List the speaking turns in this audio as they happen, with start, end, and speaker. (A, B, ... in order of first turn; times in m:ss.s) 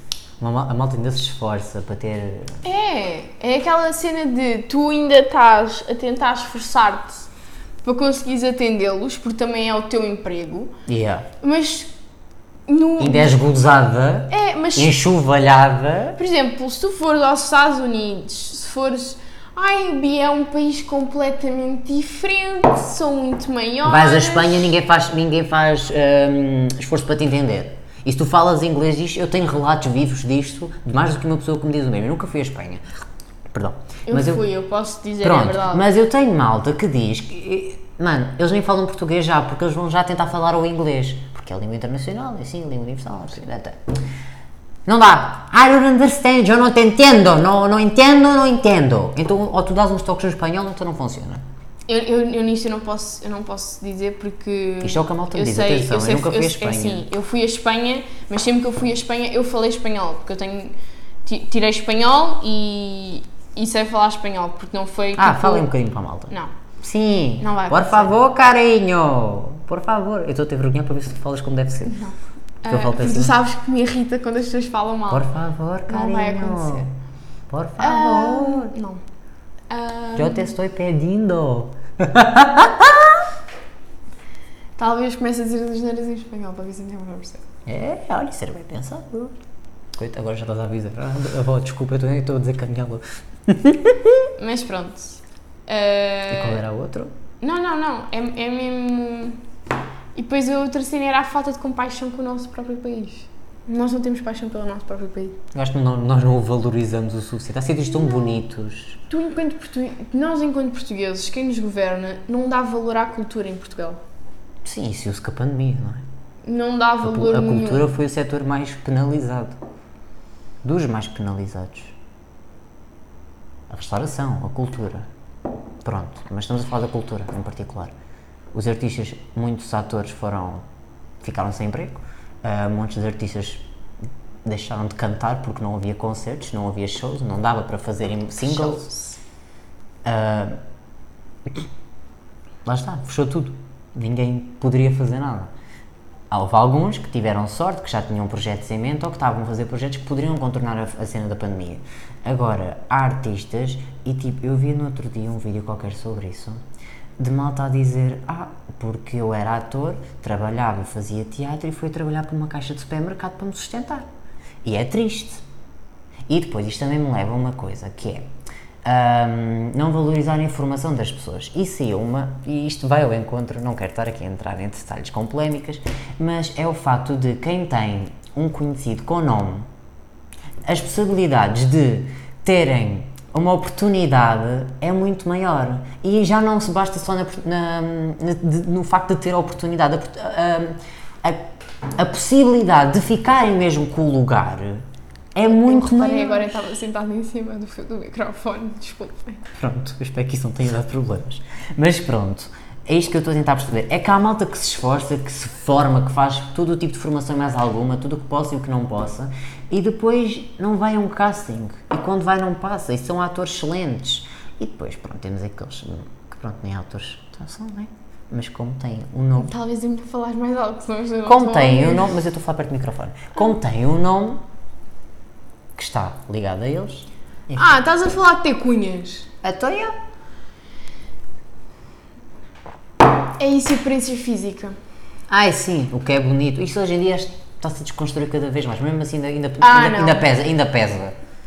0:00.4-0:02.6 A
0:02.6-0:07.3 B
0:07.8-0:10.7 B
0:10.9-0:11.3 A
0:11.4-0:11.9 B
0:12.7-0:13.4 B
0:13.0-0:16.2 A
0:14.3-0:15.0 B
0:16.2-0:24.7 B
0:23.8-0:32.8 A
0:33.5-0:34.4 A
0:34.1-0:35.9 B
0:35.2-0:43.8 A
0:44.9-0:51.4 A
0:51.9-1:00.8 B
0:54.8-0:57.1 A
1:01.3-1:05.7 B
1:05.2-1:12.0 A
1:07.4-1:08.1 B
1:11.9-1:15.3 B
1:12.7-1:13.4 A
1:15.1-1:16.9 A
1:15.9-1:16.9 B
1:17.5-1:18.7 A
1:17.8-1:19.0 B
1:19.7-1:20.5 B
1:20.2-1:23.3 A
1:24.8-1:27.4 B
1:27.7-1:29.4 A
1:29.9-1:34.3 A
1:34.4-1:36.6 B
1:36.3-1:37.1 A
1:37.4-1:39.4 B
1:40.2-1:45.4 B
1:45.5-1:49.0 A
1:48.1-1:48.4 B
1:49.1-1:54.0 B
1:54.6-1:56.0 A
1:56.4-1:57.9 B
1:57.0-1:59.6 A
2:00.6-2:02.0 A
2:03.7-2:05.1 A
2:05.8-2:08.0 A
2:08.5-2:10.6 A
2:11.2-2:13.6 A
2:14.4-2:18.9 A
2:18.4-2:19.2 B
2:20.0-2:20.6 A
2:22.6-2:25.5 A
2:26.3-2:36.6 A
2:37.2-2:44.1 A
2:44.6-2:45.4 A
2:46.3-2:48.3 A
2:48.8-2:59.7 A
3:00.6-3:16.5 A
3:15.4-3:19.5 B
3:19.5-3:39.5 A
3:39.4-3:42.1 B
3:41.3-3:44.4 A
3:45.8-3:47.8 A
3:47.6-3:49.3 B
3:49.4-3:50.0 A
3:53.4-3:54.8 B
3:55.3-4:01.2 A
3:59.6-4:00.3 B